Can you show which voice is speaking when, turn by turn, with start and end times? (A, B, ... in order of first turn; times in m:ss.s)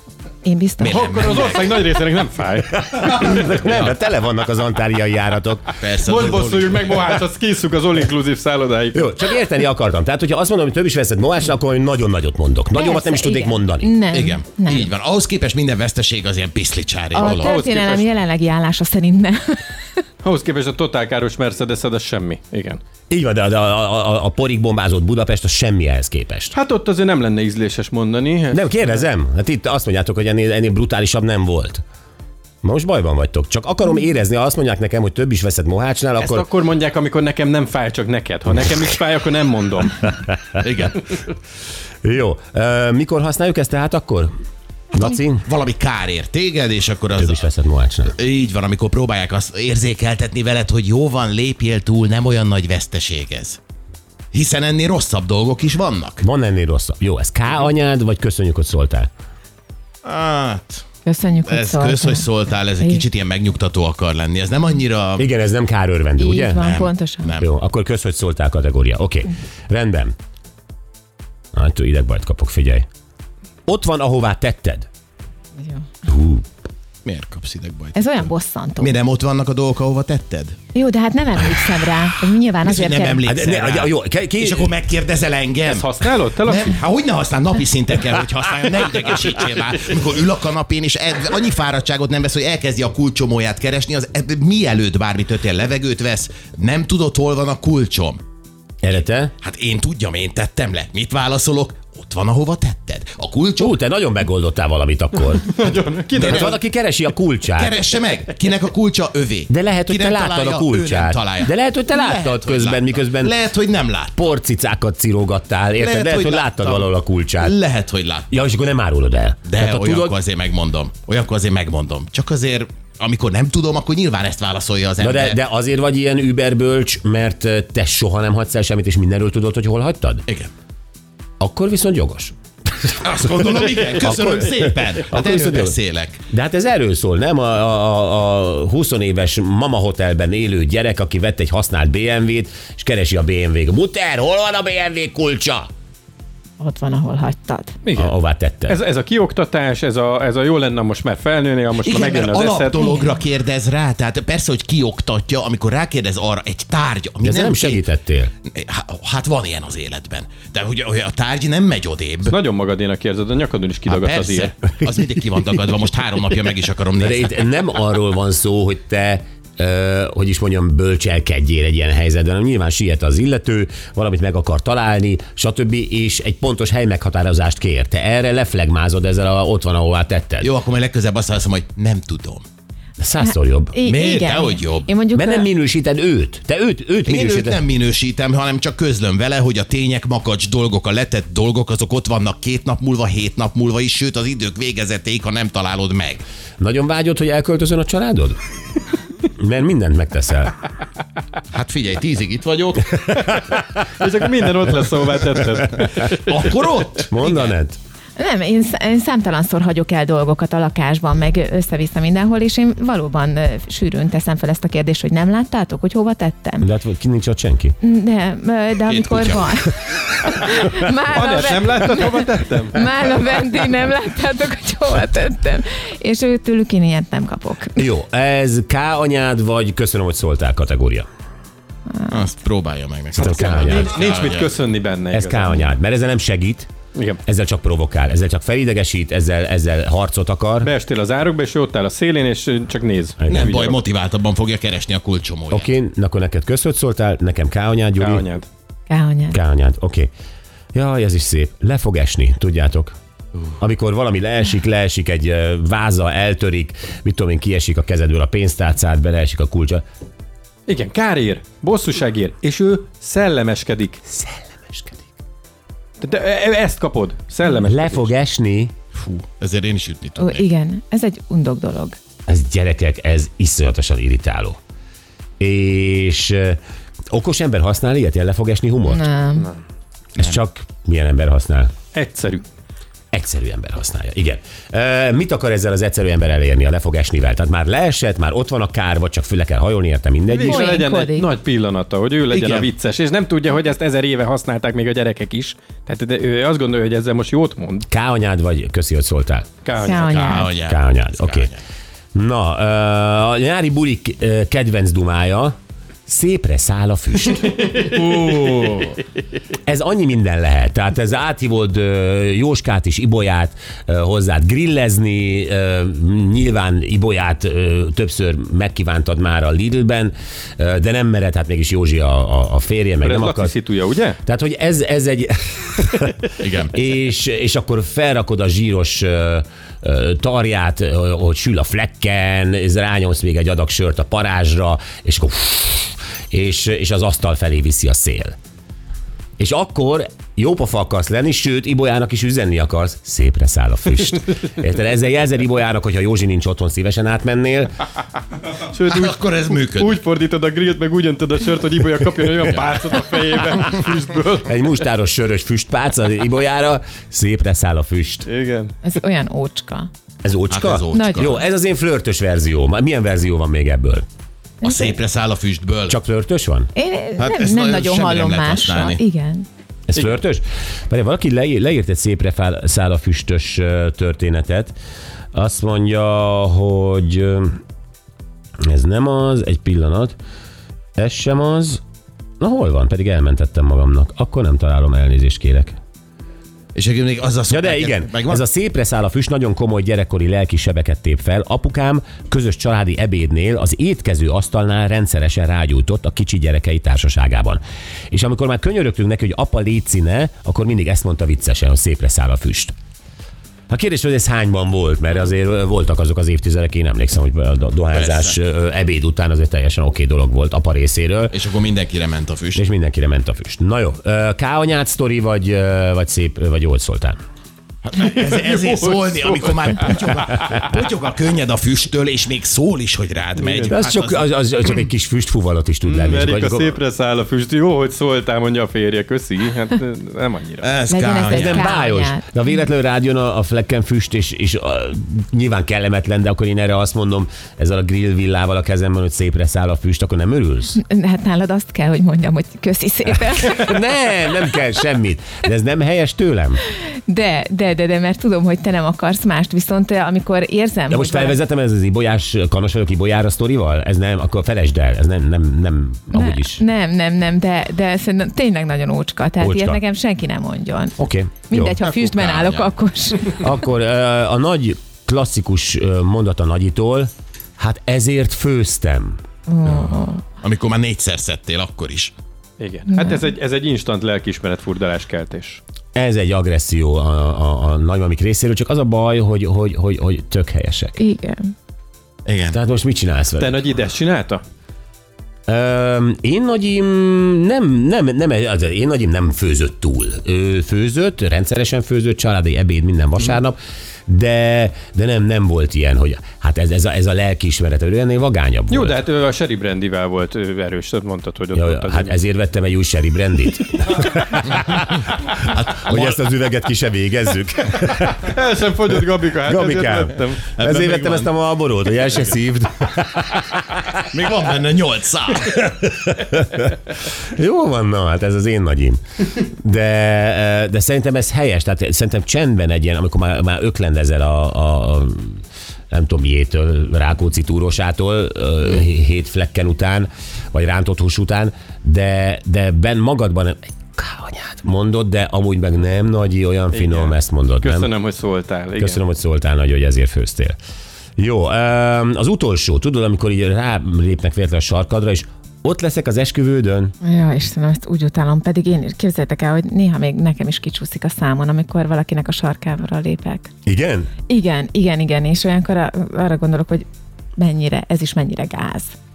0:00.4-0:01.1 A
0:00.8-0:01.8 B
0:00.8-0:03.4 C
0:02.7-0:05.7 D
0:03.6-0:03.9 B
0:05.8-0:07.0 B
0:06.0-0:09.1 C
0:08.9-0:14.0 D
0:12.7-0:14.9 A
0:14.1-0:17.6 B
0:17.1-0:20.0 A
0:17.2-0:18.1 C
0:20.2-0:22.8 C
0:23.1-0:26.5 D
0:26.5-0:29.0 C
0:28.5-0:31.8 D
0:32.6-0:36.5 D
0:36.2-0:40.1 C
0:40.6-0:41.1 B
0:42.0-0:44.3 D
0:44.9-0:45.4 D
0:45.4-0:47.4 B
0:47.2-0:48.1 D
0:48.1-0:53.6 B
0:54.3-0:56.2 B
0:56.2-0:59.1 D
1:00.0-1:00.8 B
1:01.0-1:02.3 A
1:01.4-1:05.3 B
1:02.8-1:03.0 A
1:05.2-1:06.7 D
1:06.2-1:07.3 A
1:06.6-1:07.4 B
1:07.4-1:10.1 D
1:11.5-1:12.8 D
1:13.7-1:14.9 D
1:15.6-1:15.9 A
1:16.0-1:16.4 D
1:17.0-1:20.6 B
1:17.9-1:18.9 A
1:20.7-1:23.2 A
1:22.6-1:38.2 B
1:23.2-1:24.7 D
1:25.6-1:26.8 C
1:38.8-1:39.3 D
1:39.4-1:43.7 B
1:43.6-1:45.5 D
1:45.5-1:46.6 C
1:46.1-1:46.6 B
1:46.1-1:47.8 D
1:47.6-1:54.3 B
1:49.5-1:53.4 D
1:54.1-1:57.6 D
1:55.8-1:58.3 B
1:58.3-2:00.2 D
1:59.5-2:05.4 B
2:05.0-2:10.2 D
2:11.4-2:12.3 D
2:12.8-2:16.2 B
2:14.0-2:15.8 D
2:16.3-2:25.7 D
2:26.6-2:27.7 A
2:27.8-2:28.1 C
2:28.0-2:28.8 D
2:28.7-2:32.8 C
2:31.8-2:37.8 B
2:32.7-2:33.2 A
2:37.2-2:38.3 D
2:38.5-2:42.4 B
2:42.2-2:44.5 C
2:43.8-2:47.4 B
2:47.0-3:00.5 D
3:00.4-3:02.4 B
3:03.0-3:03.7 D
3:03.2-3:05.5 A
3:03.8-3:04.9 B
3:05.1-3:07.6 D
3:07.1-3:16.2 B
3:16.6-3:18.4 D
3:19.3-3:20.5 D
3:21.5-3:23.0 B
3:23.2-3:26.5 C
3:26.3-3:27.5 B
3:27.1-3:27.8 D
3:28.2-3:36.7 A
3:36.6-3:37.8 D
3:37.8-3:47.9 A
3:38.8-3:39.5 B
3:41.1-3:42.9 C
3:47.8-3:51.0 D
3:52.1-3:54.6 B
3:53.2-3:53.9 D
3:53.2-3:55.5 C
3:55.1-3:56.7 D
3:56.9-3:57.2 C
3:57.2-4:00.7 D
4:00.6-4:03.8 C
4:03.2-4:03.5 D
4:03.3-4:05.7 B
4:05.5-4:08.2 D
4:08.0-4:08.5 C
4:08.9-4:09.4 A
4:09.3-4:10.1 D
4:10.7-4:12.9 D
4:13.6-4:19.8 D
4:20.7-4:24.0 C
4:24.1-4:25.0 D
4:26.0-4:28.1 C
4:27.6-4:28.7 D
4:29.0-4:30.5 B
4:30.2-4:32.0 A
4:32.3-4:34.6 D
4:35.4-4:36.6 D
4:37.1-4:39.1 D
4:38.8-4:39.5 A
4:40.2-4:41.7 D
4:41.9-4:42.4 C
4:43.1-4:50.7 D
4:50.3-4:57.8 C
4:50.4-4:51.3 A
4:52.3-4:52.7 B
4:57.9-4:59.5 D
4:59.6-5:00.0 C
4:59.8-5:00.5 A
4:59.9-5:01.6 B
5:00.6-5:01.5 D
5:02.1-5:05.5 D
5:06.1-5:07.6 D
5:07.5-5:09.0 C
5:09.6-5:23.5 D
5:23.0-5:24.2 C
5:24.2-5:38.4 D
5:26.4-5:26.7 B
5:39.4-5:47.8 D
5:48.6-5:54.6 C
5:48.9-5:50.0 B
5:54.4-5:58.3 D
5:58.3-5:58.7 C
5:58.8-5:59.9 A
6:00.2-6:04.0 D
6:00.5-6:01.3 B
6:00.9-6:01.4 A
6:04.6-6:05.0 A
6:04.6-6:06.0 B
6:05.9-6:06.7 D
6:06.7-6:09.4 A
6:07.2-6:09.0 B
6:09.9-6:14.7 D
6:15.3-6:17.6 D
6:18.6-6:20.2 D
6:21.0-6:21.8 D
6:22.4-6:25.7 D
6:26.7-6:28.4 B
6:27.5-6:42.7 D
6:43.7-6:51.4 D
6:47.9-6:48.4 B
6:51.3-6:52.6 B
6:52.6-6:57.2 D
6:57.9-7:04.3 B
6:58.0-7:00.0 C
7:03.4-7:03.8 C
7:03.7-7:06.8 D
7:05.8-7:10.7 C
7:10.6-7:11.7 B
7:10.9-7:12.2 A
7:11.3-7:20.8 D
7:20.7-7:23.8 A
7:23.3-7:26.6 D
7:27.1-7:31.4 A
7:30.9-7:36.6 D
7:36.1-7:43.4 A
7:39.4-7:39.8 D
7:41.0-7:41.8 D
7:41.8-7:42.7 B
7:43.4-7:49.2 D
7:49.5-7:50.2 A
7:50.4-7:52.1 B
7:52.6-7:55.6 C
7:55.9-8:01.0 D
8:01.0-8:01.5 A
8:02.2-8:02.6 B
8:02.5-8:03.6 D
8:03.4-8:04.4 C
8:05.5-8:18.9 D
8:18.7-8:22.2 C
8:21.5-8:24.9 D
8:25.4-8:28.3 D
8:25.6-8:26.2 B
8:28.2-8:31.2 C
8:29.4-8:34.0 D
8:34.1-8:35.6 B
8:35.4-8:57.9 D
8:56.7-8:59.0 C
8:58.8-9:00.6 D
9:01.2-9:06.9 D
9:07.0-9:13.5 A
9:13.6-9:14.1 D
9:14.3-9:16.8 A
9:17.4-9:19.0 A